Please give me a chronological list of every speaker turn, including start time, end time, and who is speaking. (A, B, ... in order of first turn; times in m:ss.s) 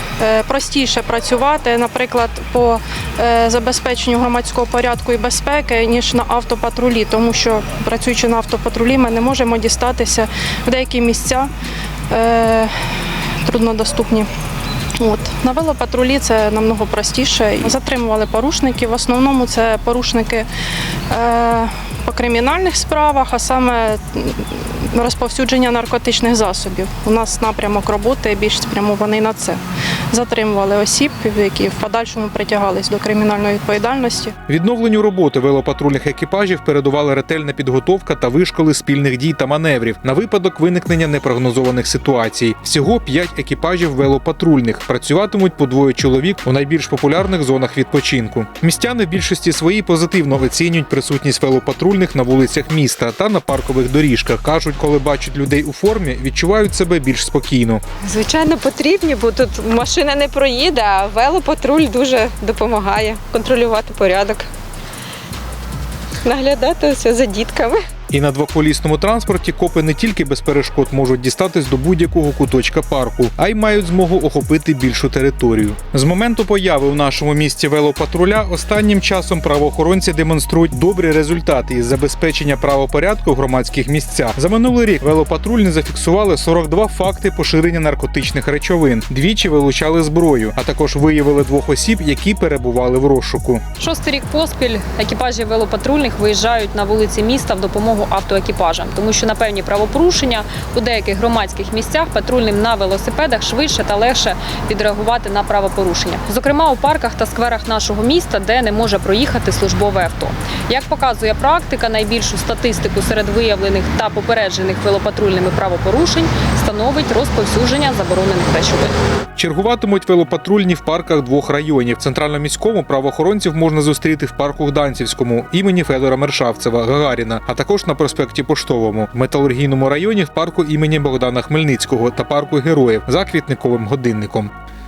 0:00.2-0:11.5 A
0:12.1-0:12.7 A
0:13.4-0:14.3 A
0:15.0-0:20.5 A
0:21.1-0:29.6 A
0:30.1-0:34.3 A
0:34.5-0:57.8 B
0:58.0-1:04.5 C
1:06.2-1:07.8 C
1:08.1-1:33.7 B
1:33.8-1:59.0 D
1:59.4-2:14.5 B